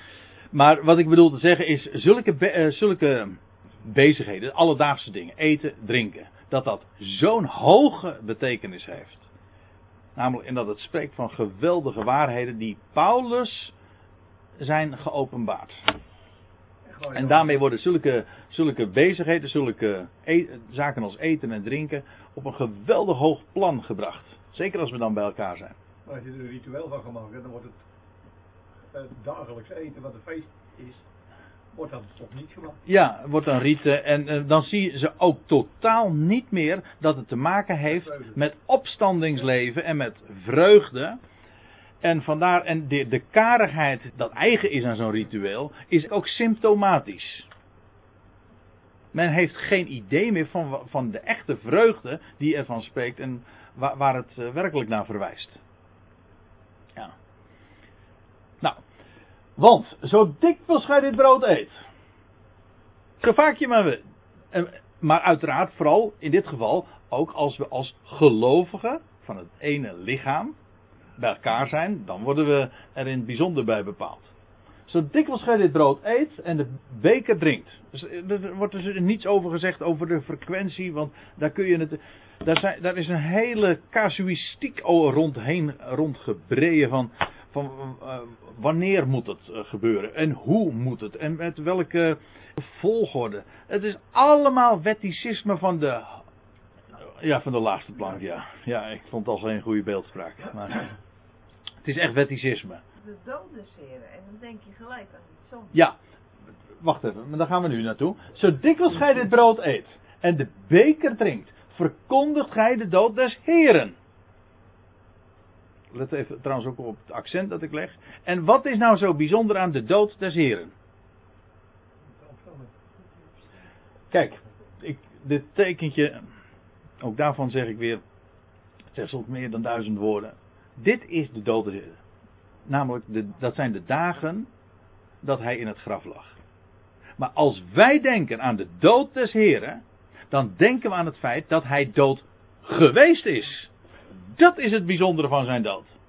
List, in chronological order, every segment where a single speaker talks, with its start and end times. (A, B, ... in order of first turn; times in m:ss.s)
0:00.5-0:09.3 A
0:10.2-0:13.7 A
0:14.6-0:15.9 A
0:16.9-0:17.6 B
0:17.1-0:25.8 A
0:26.1-0:27.7 B
0:28.9-0:31.0 B
0:31.7-0:32.8 B
0:32.9-0:41.2 A
0:42.0-0:47.5 A
0:49.1-0:55.6 A
0:59.6-1:01.8 A
1:03.2-1:04.0 A
1:04.5-1:10.6 A
1:11.2-1:14.3 A
1:14.9-1:36.2 A
1:37.2-1:40.9 A
1:41.8-1:42.8 A
1:43.0-1:45.8 C
1:46.8-1:54.0 A
1:55.9-2:00.7 A
2:02.2-2:02.7 B
2:04.1-2:06.2 A
2:07.0-2:08.0 A
2:08.9-2:12.0 A
2:12.7-2:14.5 A
2:15.2-2:16.4 A
2:17.2-2:23.7 A
2:24.3-2:25.9 A